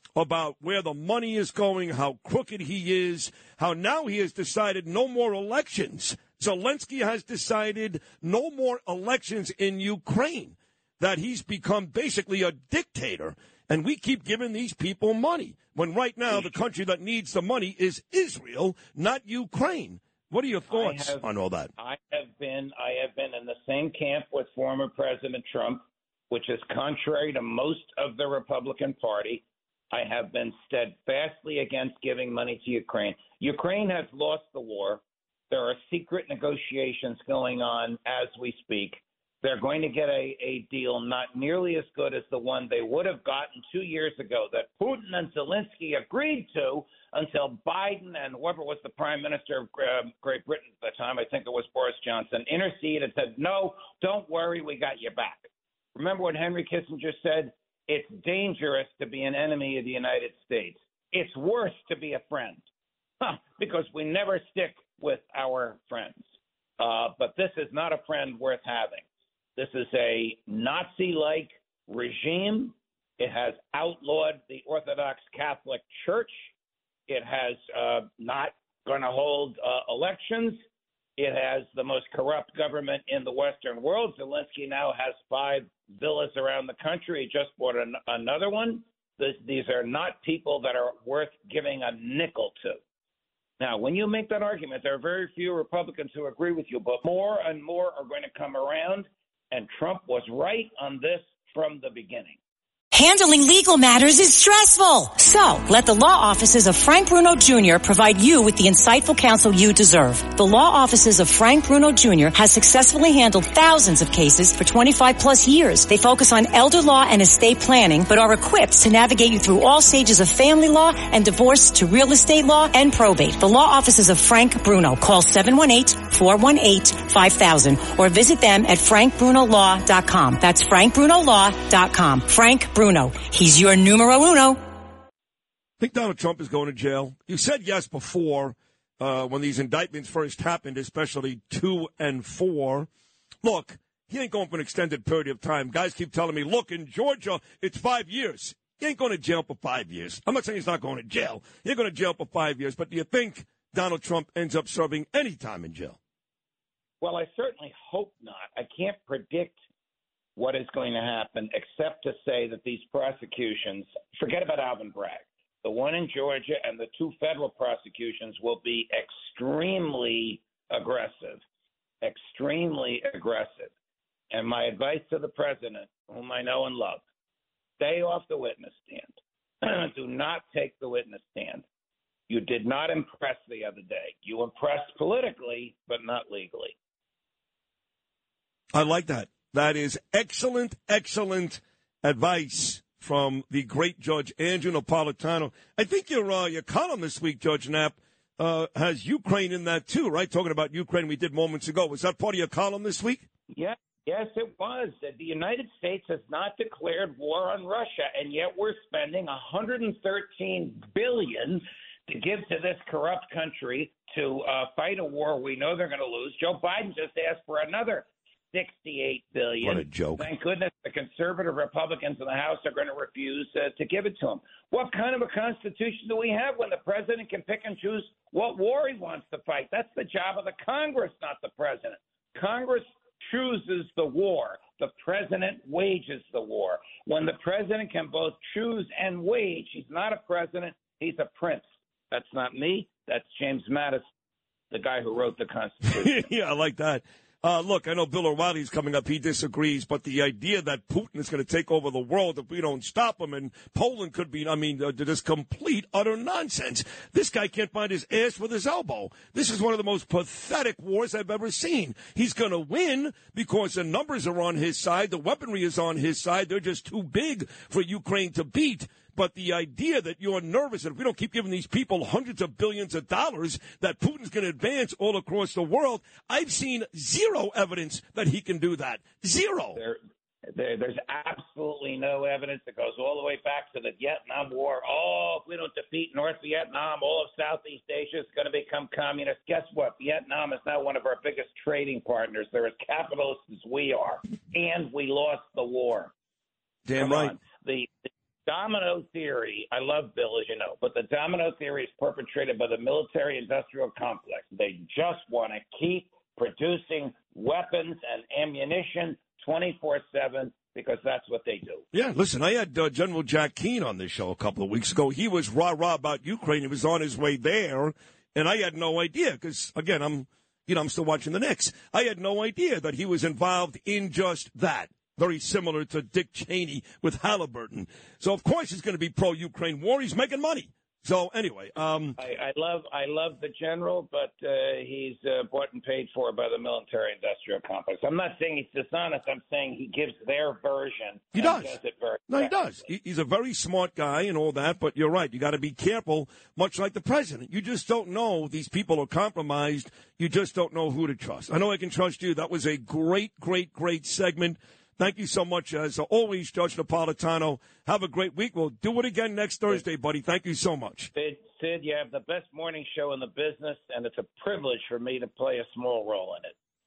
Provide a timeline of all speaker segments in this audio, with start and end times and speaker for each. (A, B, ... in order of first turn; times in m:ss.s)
0:00.2-0:21.7 A
0:16.3-0:16.6 B
0:20.7-0:21.2 B
0:21.8-1:02.6 B
1:03.2-1:06.3 B
1:06.8-1:09.0 B
1:09.6-1:16.3 B
1:17.1-1:20.6 B
1:21.2-1:32.8 B
1:33.6-1:42.4 B
1:42.9-2:14.6 C
2:15.8-2:22.9 A
2:23.4-2:36.0 A
2:37.0-2:39.6 B
2:40.4-2:51.4 B
2:52.0-2:53.7 B
2:54.3-2:57.0 B
2:57.8-3:01.6 B
3:02.3-3:06.8 B
3:08.7-3:23.3 A
3:23.5-4:04.0 B
3:39.6-3:40.3 A
4:04.7-4:06.3 B
4:05.9-4:39.8 A
4:40.5-4:56.1 B
4:56.9-4:57.4 A
4:57.0-5:11.8 B
5:11.9-5:32.2 A
5:32.2-5:42.8 B
5:41.3-5:41.8 A
5:42.3-6:01.1 A
6:01.1-6:06.5 B